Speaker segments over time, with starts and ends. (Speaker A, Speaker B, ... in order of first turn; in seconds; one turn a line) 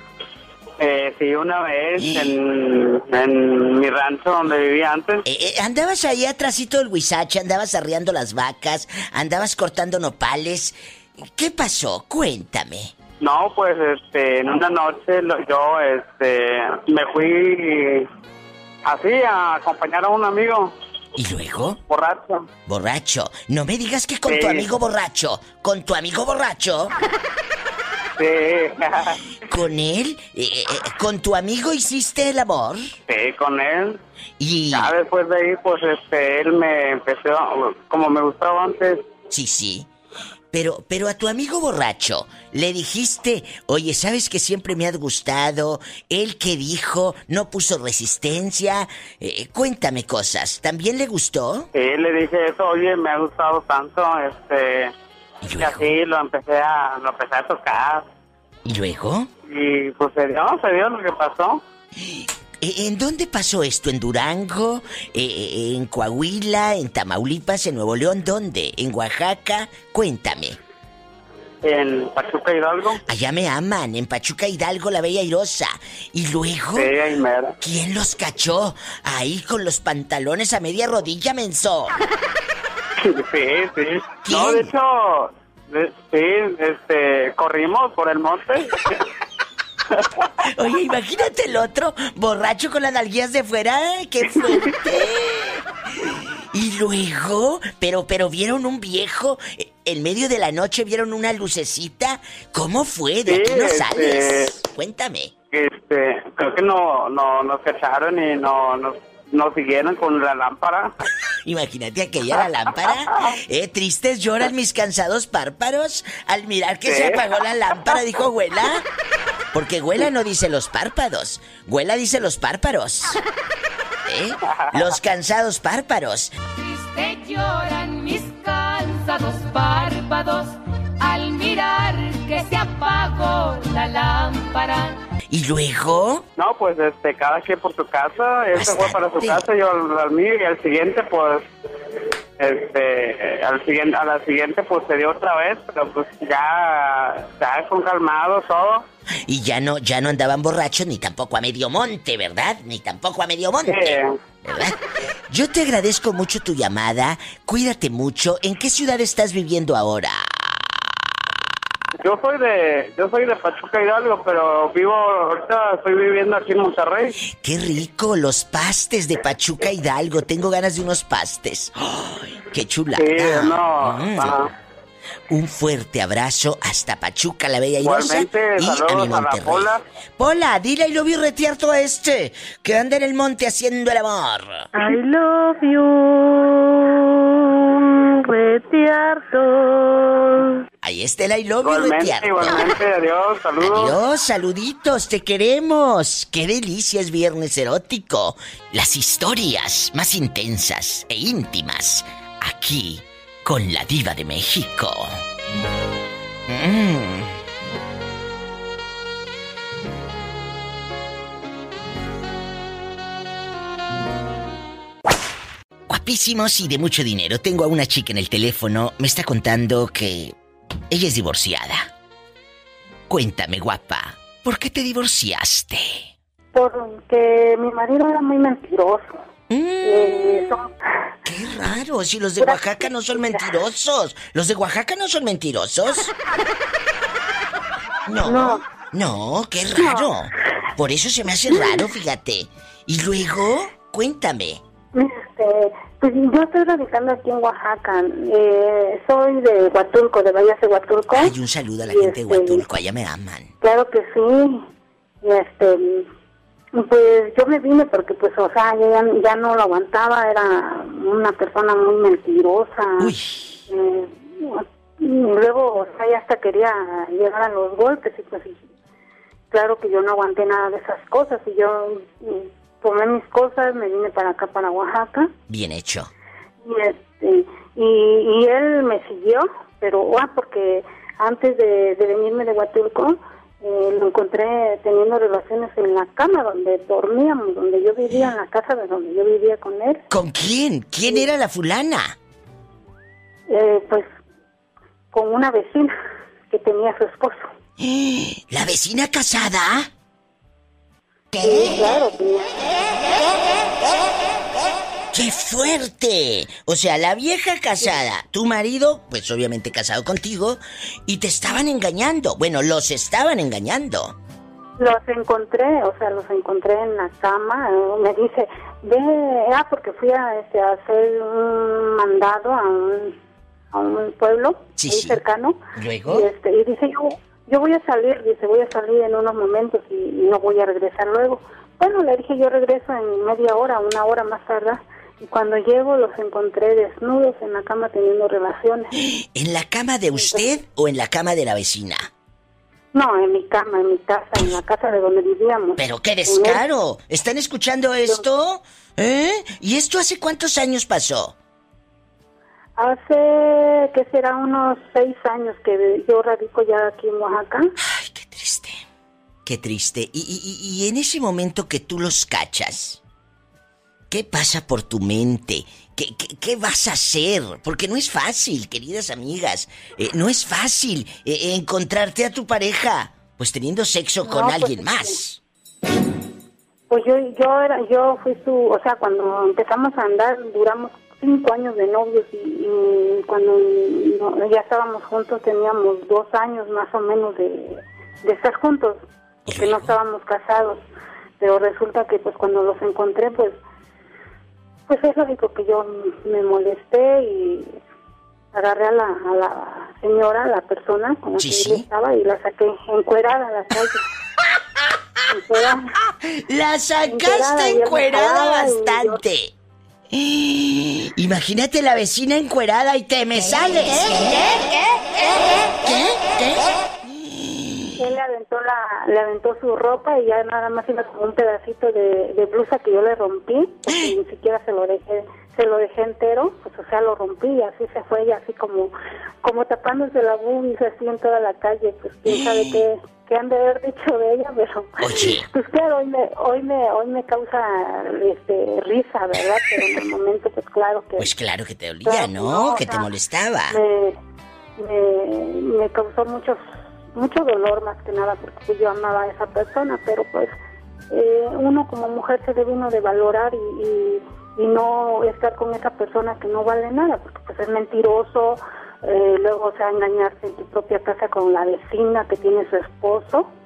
Speaker A: 0.8-5.2
Speaker B: 2.0-2.3
Speaker B: 5.2-12.9
Speaker A: 13.2-18.1
Speaker A: 18.8-20.7
Speaker B: 21.1-21.8
Speaker A: 21.9-22.4
Speaker B: 22.6-26.9
Speaker A: 24.3-24.6
Speaker A: 28.2-29.2
Speaker B: 29.4-32.8
Speaker A: 33.1-34.0
Speaker B: 34.4-34.9
Speaker A: 34.7-39.0
Speaker B: 39.3-39.9
Speaker B: 40.5-51.7
Speaker A: 51.7-54.9
Speaker B: 55.4-55.9
Speaker A: 55.6-58.0
Speaker B: 58.6-59.3
Speaker A: 59.5-61.6
Speaker B: 62.0-70.6
Speaker A: 71.6-73.0
Speaker B: 73.0-76.9
Speaker A: 76.8-77.5
Speaker B: 77.6-81.9
Speaker A: 83.0-89.0
Speaker B: 84.2-84.7
Speaker B: 90.4-105.3
Speaker A: 94.3-94.7
Speaker A: 103.2-104.5
Speaker A: 105.5-110.9
Speaker B: 111.4-118.8
Speaker A: 116.8-117.3
Speaker B: 119.5-123.2
Speaker B: 124.0-126.3
Speaker C: 126.5-135.0
Speaker B: 135.3-136.2
Speaker A: 136.4-141.5
Speaker B: 138.5-139.4
Speaker A: 142.4-148.8
Speaker B: 149.2-154.8
Speaker A: 153.7-154.1
Speaker B: 155.3-160.4
Speaker A: 162.0-167.1
Speaker B: 167.3-174.4
Speaker A: 172.9-174.5
Speaker B: 175.3-184.7
Speaker A: 177.8-179.8
Speaker D: 184.7-190.6
Speaker B: 190.8-192.7
Speaker A: 191.6-193.9
Speaker B: 193.6-205.2
Speaker B: 206.5-207.4
Speaker B: 215.9-220.3
Speaker B: 220.9-221.9
Speaker B: 223.1-226.1
Speaker E: 226.5-229.2
Speaker B: 229.5-230.5
Speaker E: 229.8-230.7
Speaker B: 231.2-236.1
Speaker E: 232.4-233.6
Speaker B: 238.1-244.6
Speaker E: 238.2-238.6
Speaker E: 239.7-240.2
Speaker E: 241.5-241.9
Speaker E: 244.9-251.3
Speaker B: 251.1-253.5
Speaker E: 251.8-252.6
Speaker E: 253.6-254.6
Speaker E: 255.2-256.1
Speaker E: 256.7-263.1
Speaker B: 263.0-263.6
Speaker E: 263.7-268.6
Speaker E: 269.5-275.3
Speaker B: 275.5-276.1
Speaker E: 276.6-290.0
Speaker B: 290.1-292.1
Speaker E: 293.5-294.1
Speaker E: 295.1-295.9
Speaker E: 296.5-297.5
Speaker B: 297.8-299.9
Speaker B: 301.3-301.8
Speaker E: 301.4-302.6
Speaker B: 305.1-314.1
Speaker E: 314.8-323.1
Speaker E: 323.7-338.9
Speaker B: 324.8-325.2
Speaker B: 325.8-326.3
Speaker B: 339.0-342.1
Speaker E: 340.1-340.5
Speaker E: 342.9-346.6
Speaker B: 345.8-351.4
Speaker E: 352.8-357.7
Speaker B: 357.8-358.8
Speaker B: 359.4-363.0
Speaker B: 364.1-375.4
Speaker E: 374.2-375.2
Speaker E: 376.9-390.8
Speaker B: 389.5-390.0
Speaker E: 391.4-393.6
Speaker E: 394.9-397.8
Speaker E: 398.5-404.0
Speaker B: 401.4-401.9
Speaker B: 404.4-405.2
Speaker E: 405.3-405.9
Speaker B: 406.1-409.5
Speaker E: 407.1-409.2
Speaker B: 410.1-417.9
Speaker E: 418.0-441.3
Speaker B: 432.3-432.8
Speaker B: 435.0-435.5
Speaker B: 441.2-443.8
Speaker E: 442.0-443.1
Speaker E: 443.7-444.2
Speaker E: 444.8-450.5
Speaker E: 451.1-463.5